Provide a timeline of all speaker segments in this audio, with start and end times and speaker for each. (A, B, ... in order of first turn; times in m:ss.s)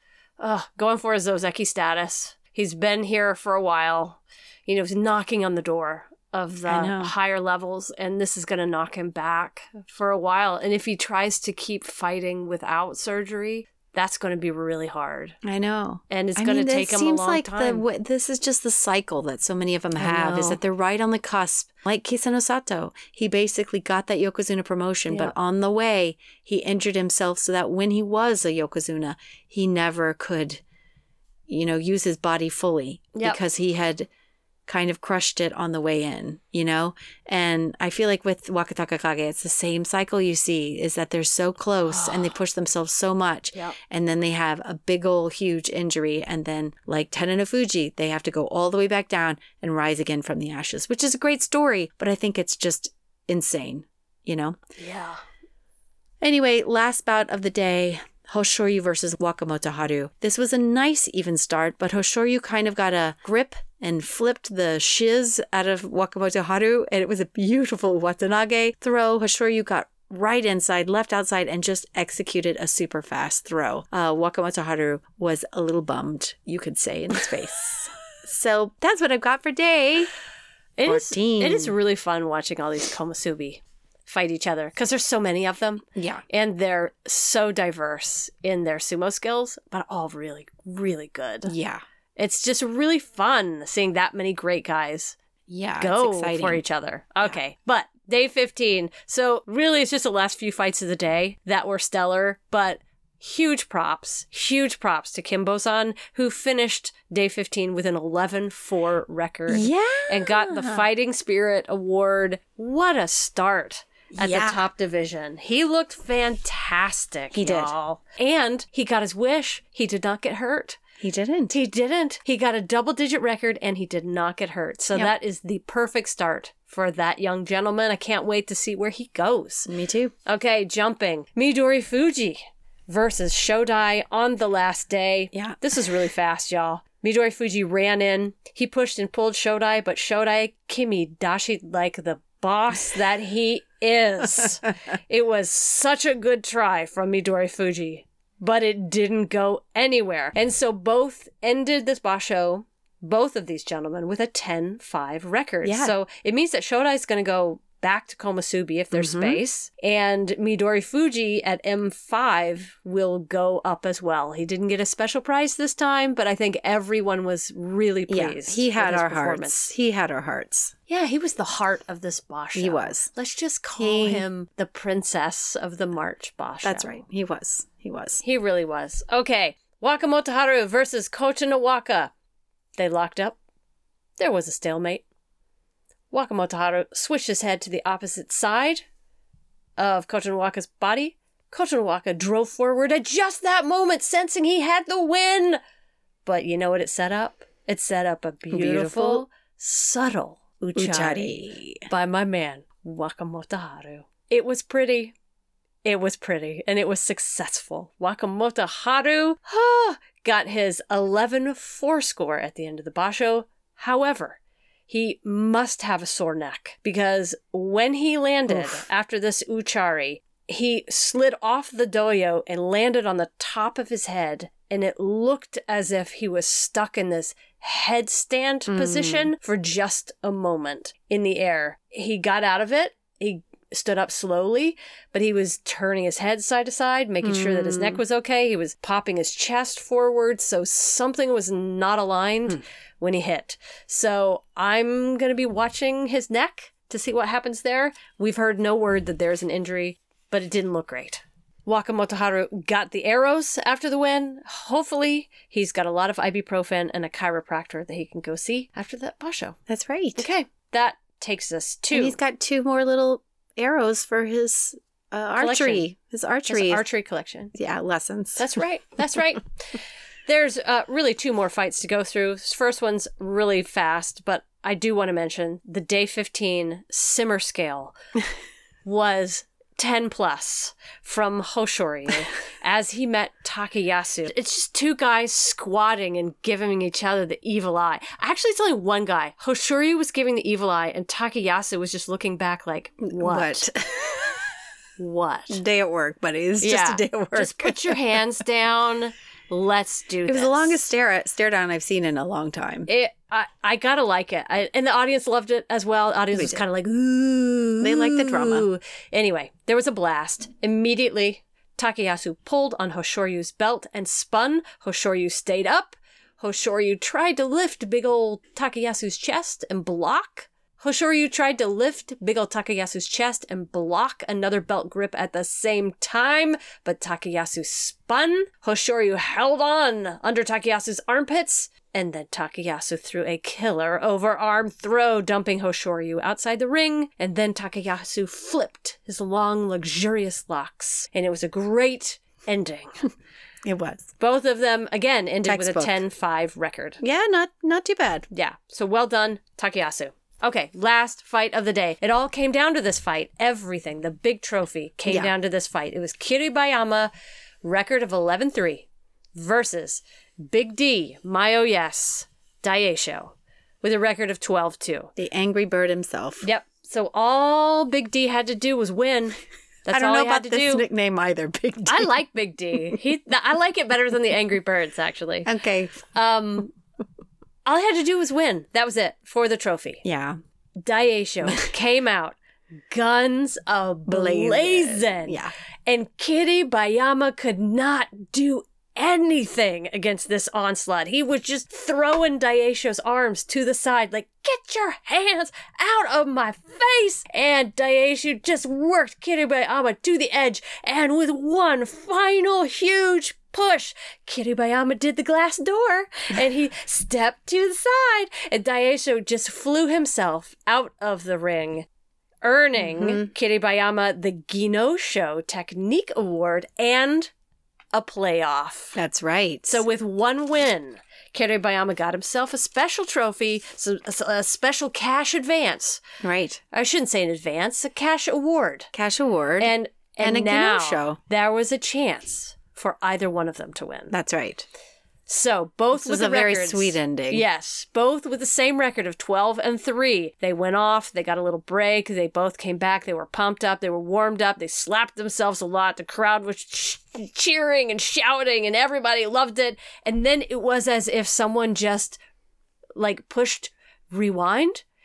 0:00.4-0:15.4 A
0:06.7-0:07.1 B
0:15.4-0:30.6 B
0:16.1-0:17.8 A
0:20.0-0:20.6 A
0:31.5-0:34.1 B
0:34.7-0:54.6 B
0:41.9-0:42.4 A
0:54.8-0:55.2 A
0:56.2-1:20.1 B
1:20.8-1:31.5 A
1:20.9-1:21.8 B
1:26.0-1:26.2 B
1:31.5-1:31.8 B
1:32.2-1:35.2 A
1:35.5-1:36.6 B
1:35.8-2:00.8 A
1:49.5-1:50.8 B
1:54.2-1:54.6 B
1:57.3-1:57.7 B
2:01.0-2:01.6 B
2:01.5-2:09.7 A
2:09.7-2:10.1 B
2:10.3-2:49.7 A
2:15.3-2:15.6 B
2:35.6-2:36.0 B
2:38.9-2:39.4 B
2:48.1-2:50.7 B
2:50.9-2:57.0 A
2:52.6-2:53.1 B
2:53.8-2:54.3 B
2:56.6-2:58.2 B
2:58.2-3:02.1 A
3:02.8-3:03.4 A
3:04.2-3:05.0 A
3:06.1-3:08.8 A
3:09.8-3:15.6 A
3:16.2-3:25.1 A
3:18.5-3:19.2 B
3:20.8-3:21.9 B
3:25.8-4:19.6 A
3:38.5-3:38.8 B
3:48.7-3:49.3 B
3:57.2-3:58.0 B
4:19.7-4:20.3 B
4:20.2-4:22.2 A
4:21.9-4:26.8 B
4:25.4-4:25.9 A
4:26.5-4:27.5 A
4:27.5-4:28.4 B
4:28.4-4:37.9 A
4:38.8-4:53.7 A
4:53.1-4:54.5 B
4:55.0-4:55.6 A
4:55.5-4:58.0 B
4:56.6-5:00.8 A
5:00.3-5:02.9 B
5:02.9-5:43.0 A
5:06.3-5:06.6 B
5:07.8-5:08.7 B
5:43.6-5:44.1 B
5:44.2-5:47.0 A
5:45.5-5:46.0 B
5:47.0-5:48.3 B
5:48.3-5:57.1 A
5:57.6-6:05.1 A
6:05.2-6:06.4 B
6:06.4-6:10.8 A
6:09.9-6:12.1 B
6:11.9-6:15.5 A
6:15.4-6:16.0 B
6:16.1-6:16.7 A
6:17.7-6:20.0 A
6:20.0-6:20.4 B
6:20.8-6:22.4 A
6:22.9-6:51.9 A
6:24.1-6:25.5 B
6:52.4-6:57.3 A
6:52.8-6:53.3 B
6:57.9-6:59.0 A
6:59.0-6:59.8 B
6:59.7-7:06.0 A
7:06.2-7:06.6 B
7:06.7-7:08.9 A
7:08.9-7:11.2 B
7:09.6-7:14.2 A
7:14.1-7:14.7 B
7:15.3-7:32.2 A
7:15.9-7:17.4 B
7:33.0-7:34.8 A